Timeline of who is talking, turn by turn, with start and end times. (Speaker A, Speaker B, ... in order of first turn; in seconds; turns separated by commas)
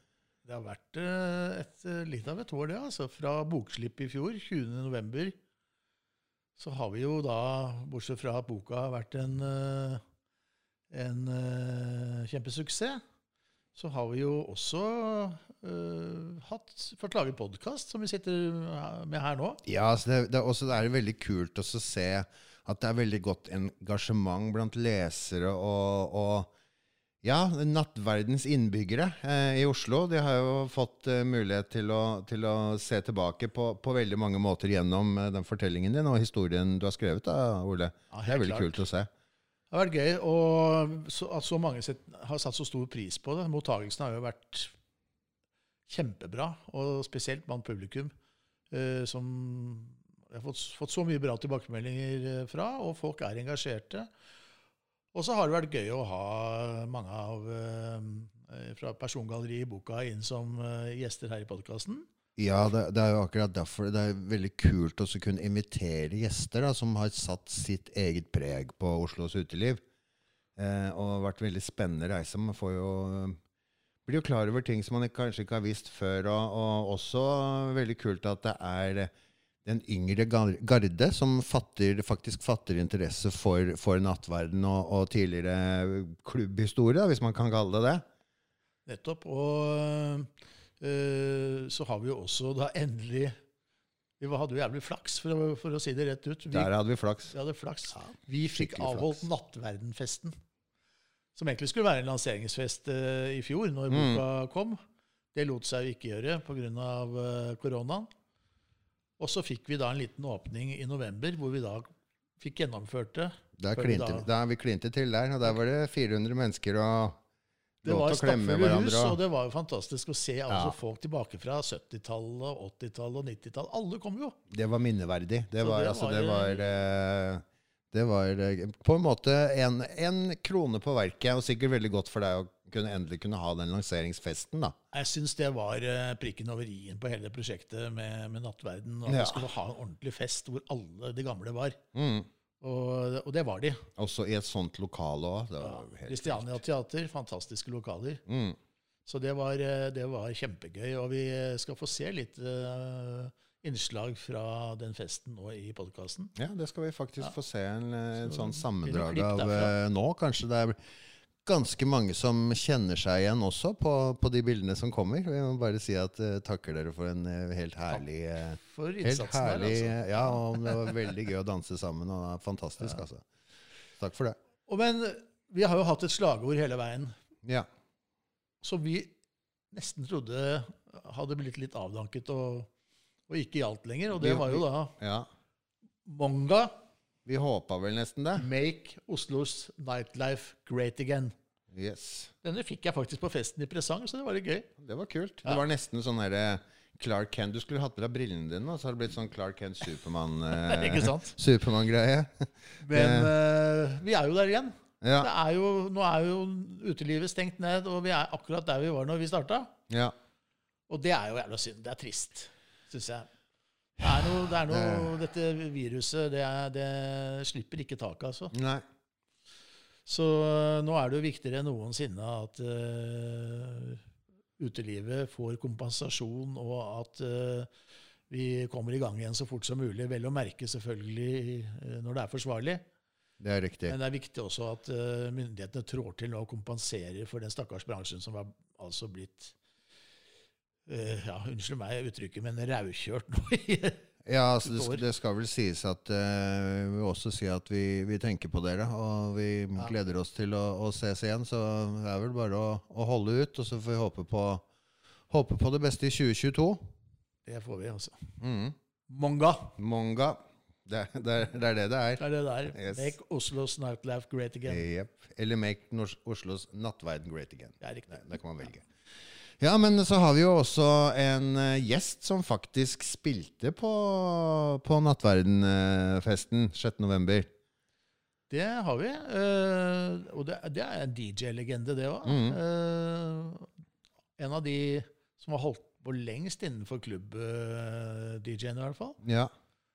Speaker A: 0.5-5.3, Speaker A: 6.6-10.0, Speaker A: 10.9-13.0, Speaker A: 13.7-19.6, Speaker B: 19.6-26.5, Speaker B: 27.2-39.1, Speaker A: 38.1-38.8, Speaker A: 39.7-44.7, Speaker A: 45.9-48.1, Speaker A: 48.7-54.1, Speaker A: 55.1-62.1, Speaker B: 62.4-69.8, Speaker B: 70.5-73.4, Speaker B: 74.0-79.1, Speaker B: 79.6-88.0, Speaker A: 88.8-90.3, Speaker A: 90.8-93.4, Speaker A: 94.2-96.7, Speaker B: 96.5-97.3, Speaker A: 97.3-100.3, Speaker B: 98.5-99.2, Speaker A: 101.3-104.8, Speaker B: 103.9-104.2, Speaker A: 105.3-108.1, Speaker A: 109.2-111.9, Speaker A: 112.4-114.3, Speaker B: 113.6-117.2, Speaker B: 117.8-119.2, Speaker A: 117.8-124.4, Speaker B: 120.5-120.7, Speaker B: 124.5-134.8, Speaker A: 125.6-126.7, Speaker A: 134.9-141.8, Speaker B: 139.1-139.4, Speaker B: 141.9-142.3, Speaker A: 142.6-143.8, Speaker B: 144.0-146.6, Speaker A: 145.6-148.2, Speaker B: 148.2-148.6, Speaker A: 149.1-156.3, Speaker B: 156.3-160.8, Speaker A: 158.2-159.7, Speaker B: 161.4-173.2, Speaker A: 168.6-170.9, Speaker B: 174.0-174.4, Speaker A: 174.7-177.1, Speaker A: 178.6-179.1, Speaker A: 179.7-182.7, Speaker A: 183.3-184.9, Speaker B: 184.2-185.3, Speaker A: 186.0-186.8, Speaker B: 187.2-188.4, Speaker A: 188.3-191.3, Speaker B: 191.7-192.3, Speaker A: 192.4-194.7, Speaker B: 194.8-203.3, Speaker A: 200.6-201.3, Speaker A: 202.8-209.7, Speaker B: 205.0-205.3, Speaker B: 209.9-210.1, Speaker A: 210.9-213.3, Speaker A: 214.0-218.5, Speaker B: 214.7-215.1, Speaker B: 218.5-218.8, Speaker A: 220.1-224.0, Speaker A: 224.6-227.7, Speaker A: 228.3-232.8, Speaker B: 233.4-233.9, Speaker A: 233.9-239.5, Speaker A: 240.9-244.0, Speaker B: 244.2-254.6, Speaker A: 244.6-245.0, Speaker B: 255.3-256.9, Speaker A: 257.4-258.3, Speaker B: 258.4-258.8, Speaker A: 259.1-259.8, Speaker B: 259.8-262.2, Speaker A: 262.2-264.8, Speaker B: 262.7-263.1, Speaker B: 264.7-268.9, Speaker A: 267.8-268.4, Speaker B: 269.6-277.5, Speaker A: 278.5-283.7, Speaker B: 282.2-282.6, Speaker A: 284.4-289.2, Speaker B: 289.2-289.5